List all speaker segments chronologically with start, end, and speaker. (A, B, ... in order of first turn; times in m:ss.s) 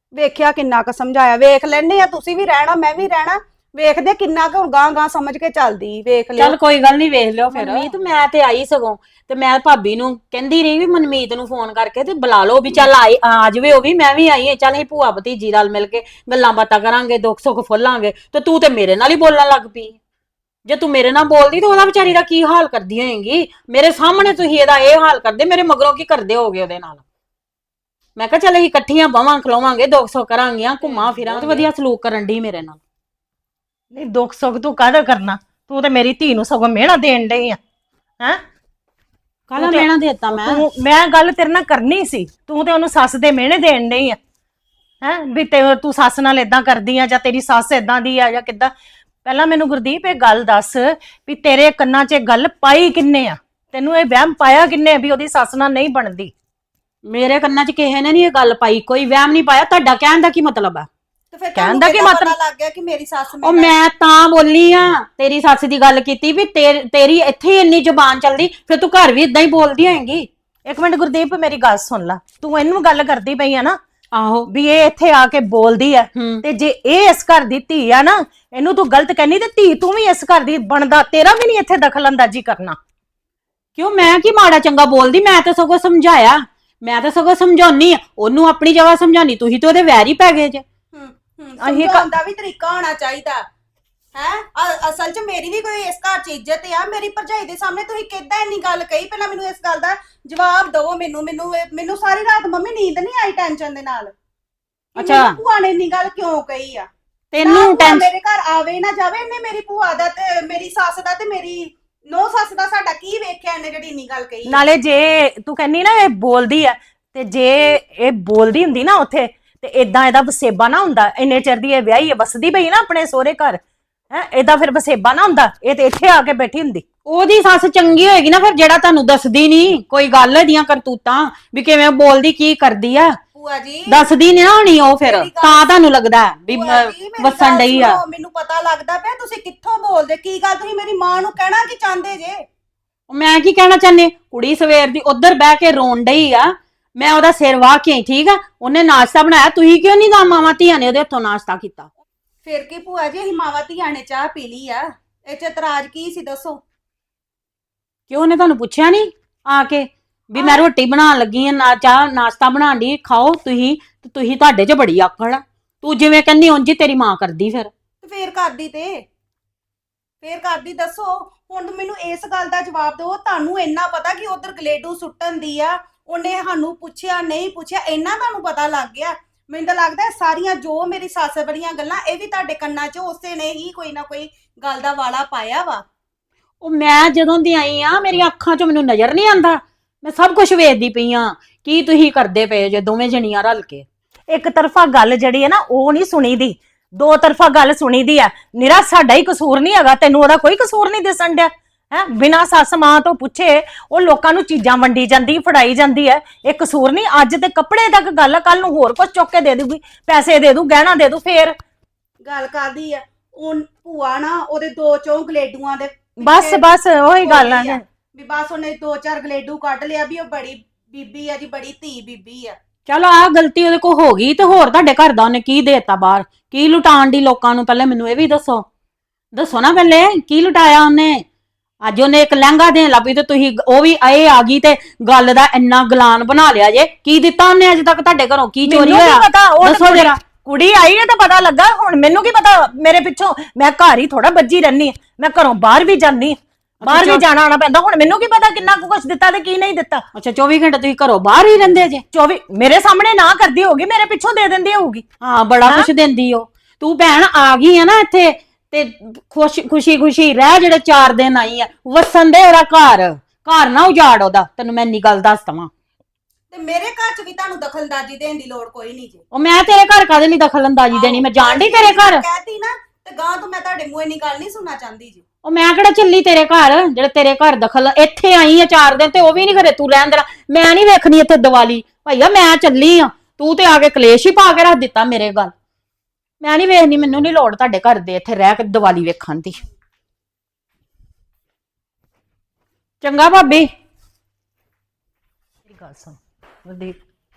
0:00.1-0:06.5 A
0:06.4-0:20.0 B
0:07.5-0:07.9 A
0:20.6-0:27.0 B
0:28.2-0:32.8 B
0:30.8-0:31.7 C
0:33.9-0:37.6 C
0:39.5-0:40.6 B
0:39.6-0:44.2 C
0:45.0-0:48.7 C
0:49.2-0:56.3 C
0:57.0-1:00.9 B
1:01.3-1:03.7 A
1:01.5-1:02.3 C
1:03.4-1:10.3 B
1:10.7-1:13.8 C
1:14.1-1:14.5 B
1:14.5-1:22.8 C
1:16.1-1:16.4 B
1:23.8-1:30.6 B
1:30.9-1:33.4 A
1:31.6-1:32.0 C
1:34.1-1:44.1 A
1:45.0-1:46.9 A
1:45.0-1:45.4 B
1:47.3-1:48.1 B
1:47.4-1:54.6 A
1:54.5-2:03.6 C
2:04.1-2:06.8 C
2:07.1-2:13.1 B
2:13.4-2:14.1 A
2:13.9-2:18.0 B
2:15.0-2:15.8 A
2:16.5-2:22.4 A
2:23.1-2:31.9 B
2:32.4-2:36.6 A
2:38.1-2:47.7 B
2:40.4-2:40.6 A
2:48.0-2:49.0 A
2:50.2-3:05.8 A
3:06.6-3:13.8 B
3:14.3-3:31.5 C
3:32.2-3:42.6 A
3:36.2-3:37.8 C
3:42.9-3:48.6 B
3:49.3-3:51.2 B
3:51.8-4:00.1 B
3:58.6-4:10.0 C
4:06.8-4:07.2 B
4:10.1-4:12.0 B
4:12.1-4:15.0 C
4:15.2-4:25.7 B
4:26.5-4:29.2 A
4:29.3-4:32.2 B
4:30.9-4:35.2 A
4:35.4-4:45.5 B
4:46.4-4:49.6 B
4:53.0-4:53.7 B
4:55.6-4:57.0 C